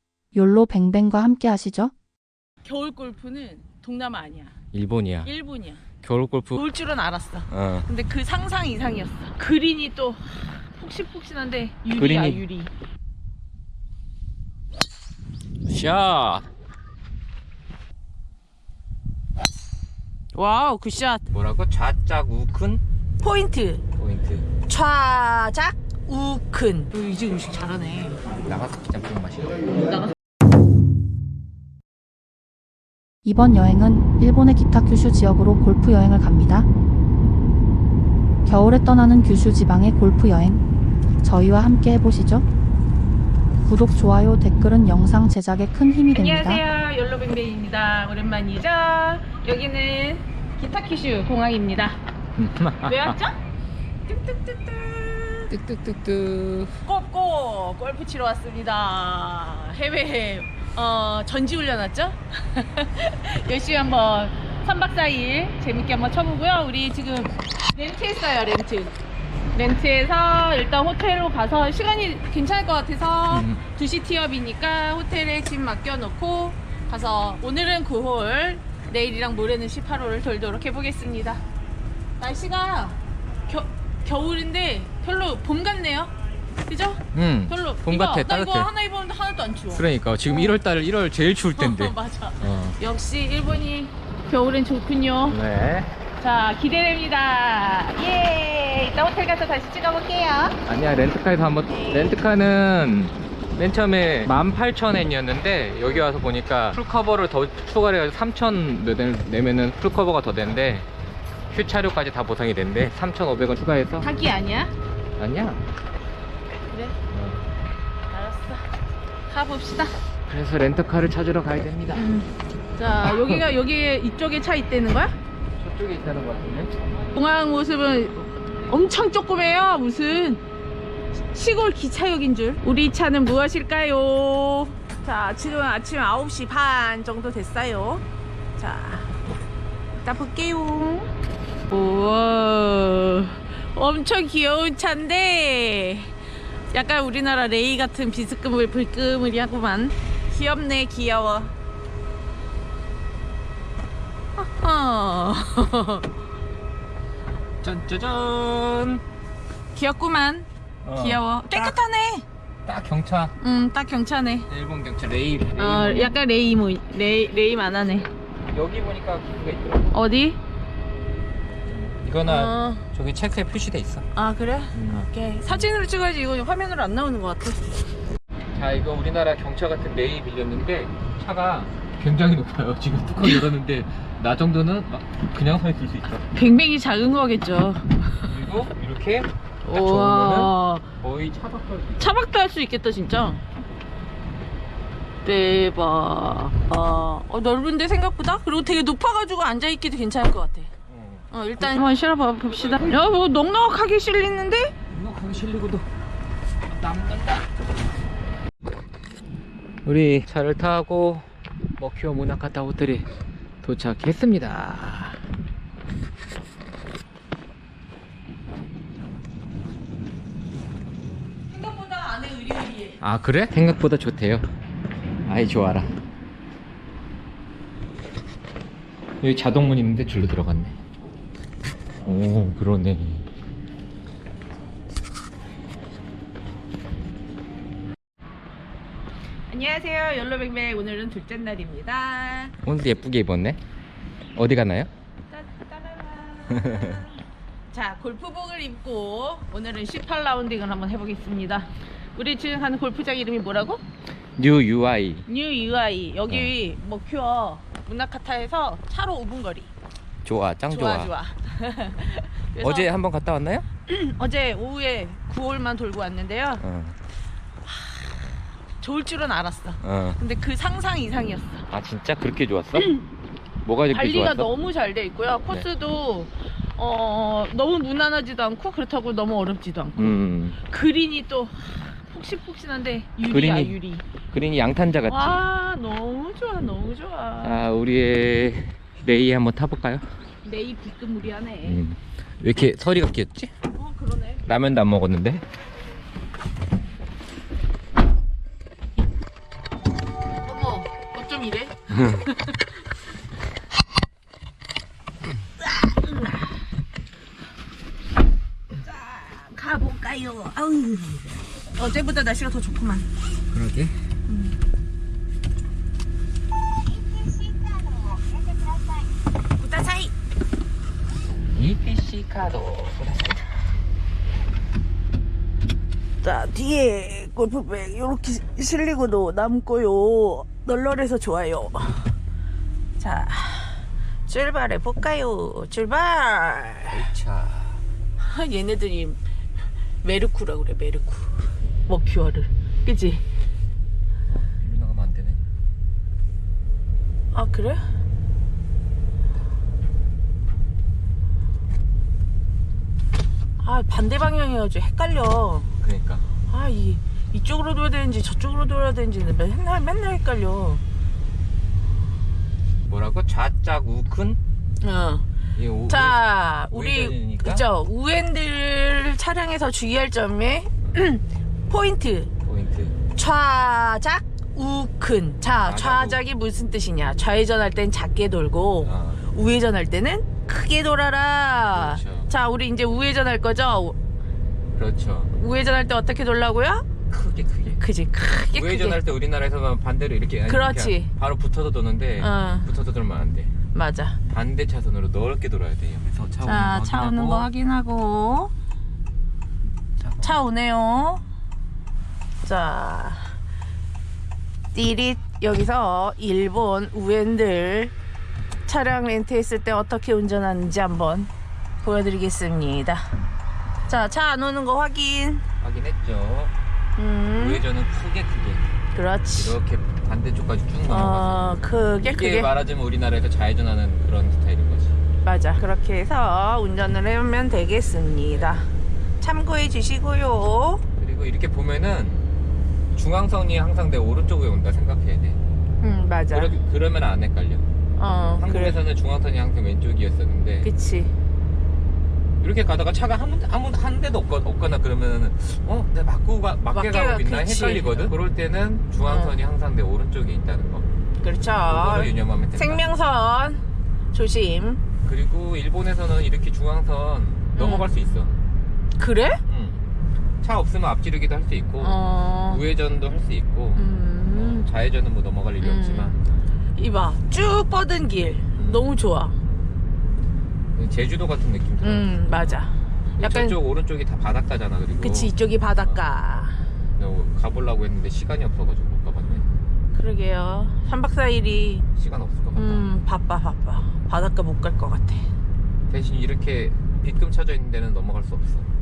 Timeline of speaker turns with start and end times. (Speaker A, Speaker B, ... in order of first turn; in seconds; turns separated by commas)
Speaker A: 0.3-1.9, Speaker B: 2.6-4.5, Speaker C: 4.7-5.3, Speaker B: 5.2-5.8, Speaker C: 6.0-6.6, Speaker B: 6.5-12.7, Speaker C: 7.5-7.9, Speaker C: 11.9-12.4, Speaker C: 15.7-16.5, Speaker B: 20.3-21.2, Speaker C: 21.3-22.8, Speaker B: 23.2-23.8, Speaker C: 24.0-24.5, Speaker B: 24.7-28.2, Speaker C: 28.4-29.8, Speaker B: 29.9-30.1, Speaker A: 33.2-36.7, Speaker A: 38.5-40.6, Speaker A: 41.2-42.5, Speaker A: 43.6-46.6, Speaker B: 46.1-52.0, Speaker C: 52.4-53.2, Speaker B: 52.8-53.4, Speaker B: 54.1-55.5, Speaker C: 55.5-56.8, Speaker B: 56.8-68.9, Speaker B: 69.5-81.4, Speaker C: 73.3-73.6, Speaker B: 82.2-86.1, Speaker B: 86.7-90.6, Speaker C: 87.1-88.7, Speaker C: 89.7-92.8, Speaker B: 91.5-95.4, Speaker C: 95.3-95.9, Speaker B: 96.2-100.6, Speaker C: 100.7-110.9, Speaker B: 101.7-102.2, Speaker C: 111.5-114.1, Speaker B: 114.0-114.7, Speaker C: 115.2-115.6, Speaker B: 116.7-117.0, Speaker C: 117.1-117.5, Speaker B: 118.1-118.7, Speaker B: 119.3-119.9, Speaker C: 120.3-122.1, Speaker B: 121.9-125.1, Speaker C: 123.0-123.4, Speaker C: 125.6-126.9, Speaker B: 127.1-130.4, Speaker B: 131.1-138.0, Speaker B: 138.6-139.1, Speaker B: 140.0-141.1, Speaker B: 141.7-146.1, Speaker B: 146.7-151.5, Speaker B: 154.4-156.1, Speaker C: 157.6-159.0, Speaker B: 159.7-162.2, Speaker C: 160.8-161.8, Speaker C: 162.6-163.3, Speaker B: 163.4-164.5, Speaker C: 164.4-166.2, Speaker B: 165.6-168.1, Speaker C: 168.5-169.9, Speaker B: 169.9-170.4, Speaker C: 171.7-174.0, Speaker B: 172.2-172.8, Speaker B: 174.1-177.6, Speaker C: 174.7-175.7, Speaker C: 178.5-186.2, Speaker B: 186.3-188.3, Speaker C: 188.3-192.1, Speaker B: 189.6-190.9, Speaker B: 192.0-193.4, Speaker B: 195.2-200.7, Speaker C: 200.9-201.9, Speaker B: 201.3-204.7, Speaker C: 202.5-203.0, Speaker C: 204.9-205.9, Speaker C: 206.7-207.4, Speaker C: 209.8-211.3, Speaker C: 211.8-213.1, Speaker C: 213.6-215.2, Speaker B: 221.5-223.0, Speaker C: 223.0-224.5, Speaker C: 225.2-225.9, Speaker C: 229.2-230.8, Speaker C: 232.0-233.3, Speaker B: 239.5-242.5, Speaker C: 242.6-243.6, Speaker C: 244.3-244.9, Speaker B: 245.3-247.2, Speaker C: 246.5-247.0, Speaker B: 247.7-253.8, Speaker C: 254.4-255.2, Speaker B: 255.3-259.7, Speaker C: 260.2-261.1, Speaker B: 260.7-262.9, Speaker C: 262.6-263.6, Speaker B: 263.9-266.6, Speaker C: 266.6-267.0, Speaker B: 267.7-271.7, Speaker C: 269.8-270.2, Speaker C: 271.7-273.0, Speaker B: 272.8-273.0, Speaker C: 273.6-274.5, Speaker B: 273.9-284.1, Speaker C: 279.9-280.6, Speaker C: 283.3-283.8, Speaker C: 284.3-285.4, Speaker B: 285.1-287.6, Speaker C: 287.4-290.0, Speaker B: 290.4-291.8, Speaker C: 291.6-293.5, Speaker B: 293.7-294.4, Speaker C: 294.4-295.4, Speaker B: 300.4-302.6, Speaker C: 301.9-302.3, Speaker B: 305.6-306.5, Speaker B: 308.8-313.1, Speaker C: 313.5-313.9, Speaker B: 314.3-314.5, Speaker B: 316.9-319.1, Speaker B: 319.6-320.1, Speaker C: 321.5-323.4, Speaker B: 326.2-332.0, Speaker B: 333.0-337.1, Speaker C: 336.9-337.8, Speaker B: 338.2-339.2, Speaker B: 340.0-343.2, Speaker C: 344.3-345.4, Speaker B: 347.3-347.8, Speaker B: 353.6-355.7, Speaker C: 355.8-356.2, Speaker B: 356.5-360.8, Speaker C: 362.9-364.4, Speaker B: 364.8-365.3, Speaker C: 365.5-367.6, Speaker B: 365.9-372.3, Speaker C: 372.4-373.0, Speaker B: 373.1-384.0, Speaker C: 375.6-376.2, Speaker C: 378.8-379.2, Speaker C: 381.7-382.3, Speaker C: 384.7-385.3, Speaker B: 385.4-386.9, Speaker C: 387.1-387.8, Speaker B: 387.8-389.0, Speaker C: 388.5-393.5, Speaker B: 390.4-391.1, Speaker B: 392.2-392.7, Speaker B: 393.7-394.2, Speaker C: 394.3-397.5, Speaker B: 396.4-398.5, Speaker C: 400.0-400.4, Speaker B: 400.2-401.2, Speaker B: 402.4-403.3, Speaker B: 404.7-407.9, Speaker B: 408.7-411.3, Speaker B: 411.8-413.1, Speaker B: 413.9-415.4, Speaker C: 415.6-416.5, Speaker B: 417.0-417.6, Speaker C: 417.4-418.6, Speaker B: 418.9-419.6, Speaker C: 419.3-425.0, Speaker B: 420.9-422.5, Speaker B: 425.2-430.8, Speaker C: 428.3-428.6, Speaker C: 431.0-432.3, Speaker C: 432.9-435.4, Speaker B: 435.8-436.5, Speaker C: 436.3-437.7, Speaker B: 438.0-438.8, Speaker C: 438.4-440.7, Speaker B: 440.6-441.1, Speaker C: 442.4-450.9, Speaker B: 446.7-448.1, Speaker B: 449.1-449.4, Speaker B: 451.2-454.8, Speaker C: 451.6-452.9, Speaker C: 455.0-458.4, Speaker B: 457.5-457.9, Speaker B: 459.0-459.4, Speaker C: 459.5-459.8, Speaker C: 460.4-466.4, Speaker B: 461.8-462.6, Speaker B: 463.8-464.7, Speaker B: 465.6-466.1, Speaker B: 466.8-469.3, Speaker C: 468.6-469.8, Speaker C: 470.7-472.6, Speaker B: 471.8-473.6, Speaker C: 473.2-476.0, Speaker B: 475.0-476.6, Speaker C: 476.9-479.4, Speaker B: 479.9-481.9, Speaker C: 481.9-482.9, Speaker B: 482.6-485.3, Speaker C: 485.9-488.7